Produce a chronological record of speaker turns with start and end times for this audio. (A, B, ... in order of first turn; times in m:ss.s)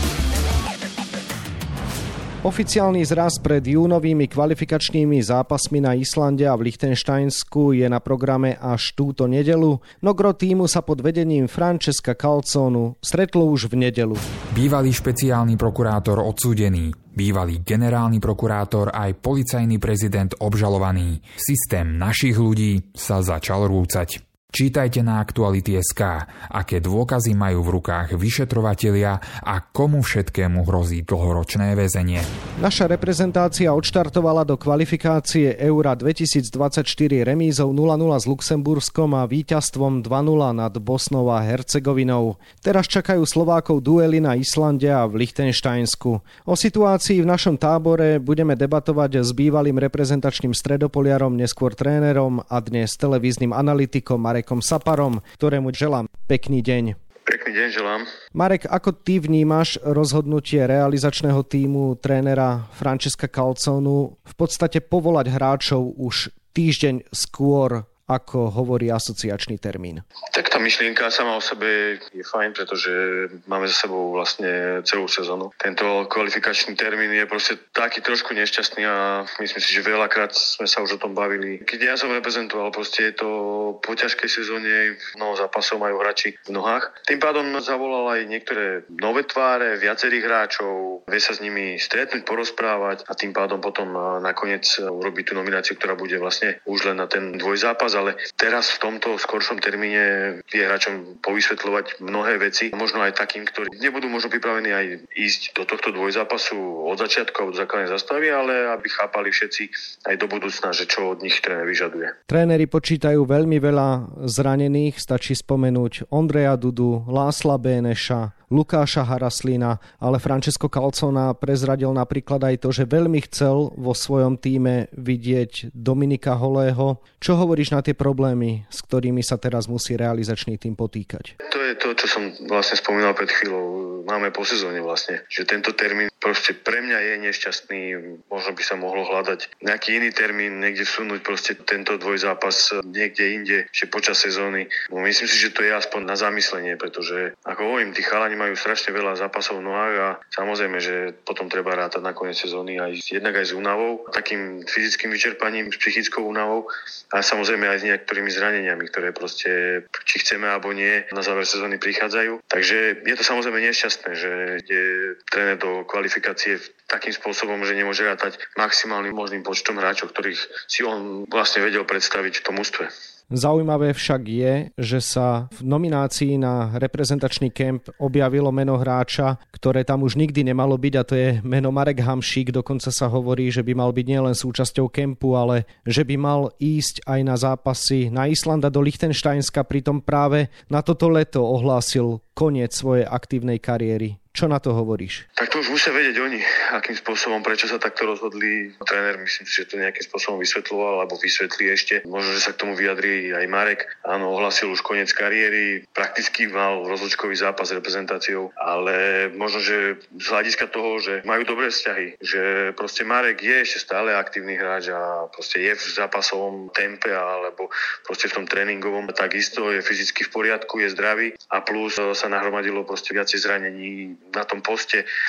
0:02.4-0:14.2 A
0:14.5-0:32.3 B
0:32.6-0:57.0 A
0:57.3-0:58.1 C
0:58.3-1:10.0 A
1:10.3-1:52.1 C
1:52.3-2:11.3 A
2:11.5-2:52.9 C
2:53.3-3:15.2 A
3:15.4-3:45.1 C